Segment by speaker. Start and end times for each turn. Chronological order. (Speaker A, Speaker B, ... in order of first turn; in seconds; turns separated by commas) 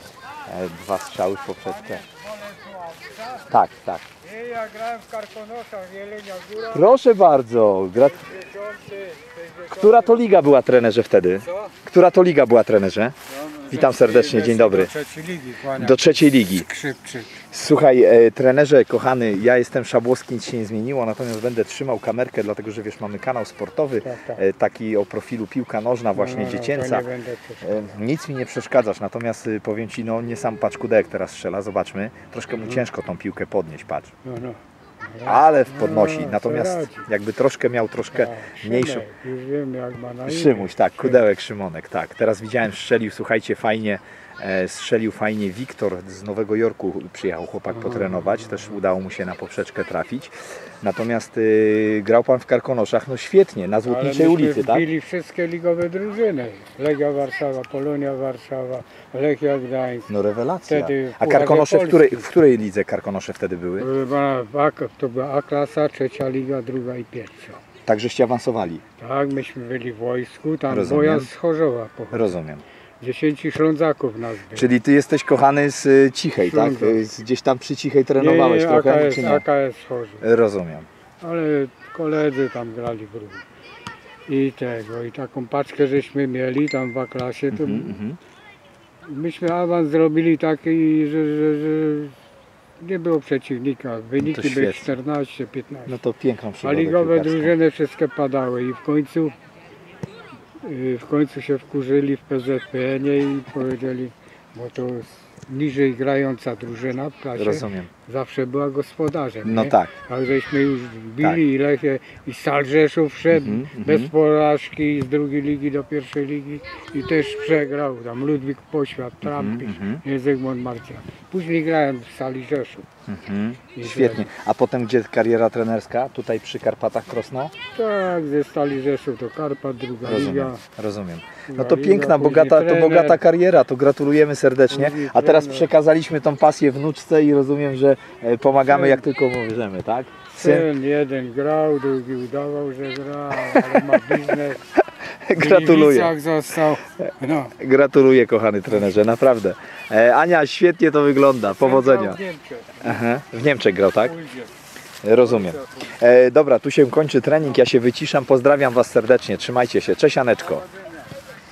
Speaker A: 0.5-2.0, Speaker B: 1.6-3.5, Speaker A: 3.4-4.0, Speaker B: 4.2-7.0, Speaker A: 6.7-8.2, Speaker B: 8.0-10.2, Speaker A: 9.7-13.1, Speaker B: 13.3-17.4, Speaker A: 13.7-14.9, Speaker A: 15.7-16.7, Speaker A: 17.5-27.1, Speaker B: 24.0-24.4, Speaker B: 26.1-27.8, Speaker A: 27.6-34.1, Speaker B: 34.2-37.1, Speaker A: 35.2-39.1, Speaker B: 38.1-41.1, Speaker A: 40.3-54.9, Speaker B: 47.8-48.4, Speaker B: 53.9-60.1, Speaker A: 60.1-63.9, Speaker B: 60.7-62.3, Speaker B: 63.8-67.6, Speaker A: 67.9-68.8, Speaker B: 69.0-72.3, Speaker A: 70.7-71.3, Speaker A: 72.1-72.6, Speaker B: 73.0-74.7, Speaker A: 74.5-79.4, Speaker B: 76.4-77.0, Speaker B: 78.2-80.2, Speaker A: 80.2-80.9, Speaker B: 81.2-83.4, Speaker B: 84.3-88.0, Speaker A: 87.5-88.2, Speaker B: 89.0-92.1, Speaker B: 92.8-95.9, Speaker A: 94.2-94.9, Speaker A: 95.9-97.5, Speaker B: 96.6-99.4, Speaker B: 100.6-122.9, Speaker A: 107.4-107.9, Speaker A: 109.4-109.9, Speaker A: 113.3-114.1, Speaker A: 119.2-120.0, Speaker A: 123.1-127.5, Speaker B: 123.7-124.3, Speaker B: 127.7-130.6, Speaker A: 130.0-140.7, Speaker B: 131.5-133.2, Speaker B: 134.7-135.7, Speaker B: 138.6-139.0, Speaker B: 140.3-144.6, Speaker A: 143.5-143.8, Speaker A: 145.2-146.1, Speaker B: 145.3-147.5, Speaker A: 147.0-152.2, Speaker B: 151.5-153.0, Speaker A: 152.8-154.2, Speaker B: 154.0-154.5, Speaker A: 155.0-160.7, Speaker B: 155.2-155.9